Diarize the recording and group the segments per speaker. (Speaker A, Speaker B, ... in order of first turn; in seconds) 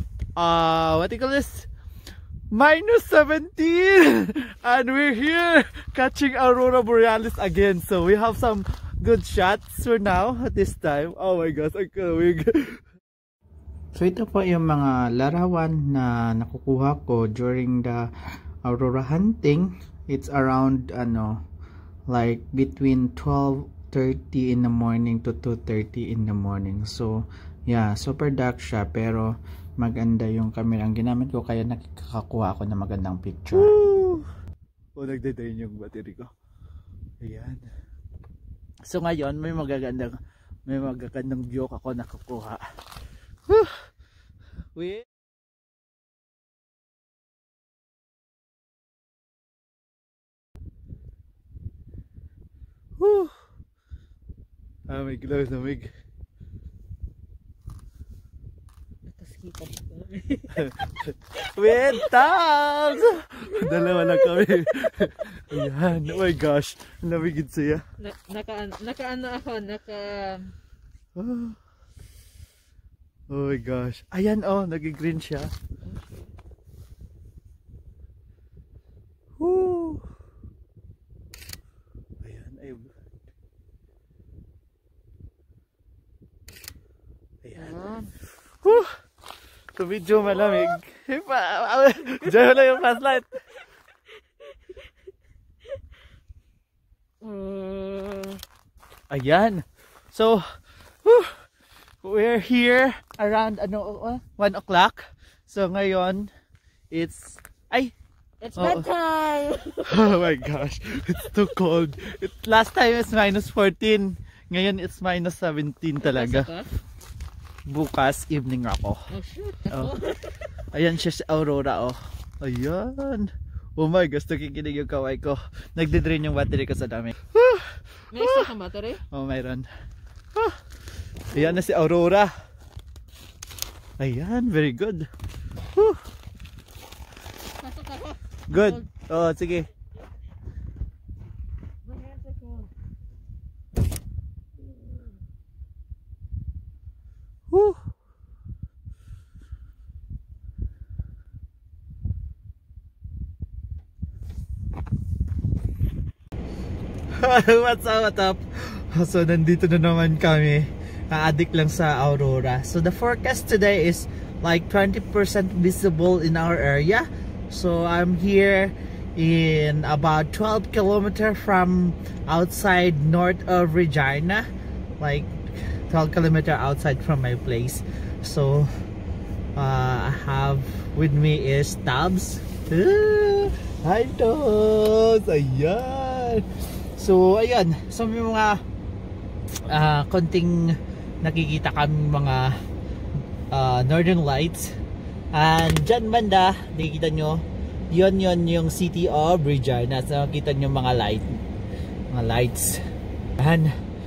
Speaker A: 0.4-1.7, 2.5-12.8, 13.9-18.1, 18.6-21.4, 22.1-27.1, 27.7-34.3, 35.0-36.3, 37.2-37.7, 38.9-40.2, 40.7-42.6, 43.5-43.8, 44.8-45.0, 53.0-53.4, 54.9-55.9, 60.5-67.8, 71.2-71.6, 73.3-75.5, 79.4-80.1, 82.2-82.9, 87.4-87.8, 88.6-89.0, 89.8-93.4, 99.1-100.4, 101.0-101.4, 102.0-106.3, 106.9-107.9, 108.6-108.8, 109.9-116.5, 117.7-119.0, 120.7-128.5, 129.1-129.7, 131.3-132.3, 134.0-135.1, 135.8-136.0, 138.5-139.7, 147.5-147.8, 157.2-174.5, 175.0-178.7, 179.6-186.4, 187.0-188.6, 189.7-190.7, 191.2-192.5, 193.5-194.8, 195.3-197.4, 197.9-201.4, 202.1-202.8, 203.4-203.7
Speaker B: 59.1-60.8, 61.7-62.1, 63.5-65.1, 68.0-70.5, 75.9-76.3, 87.6-88.1, 97.2-98.4, 108.4-110.3, 116.0-116.7, 119.1-120.4, 128.1-129.0, 137.6-138.8, 141.8-142.7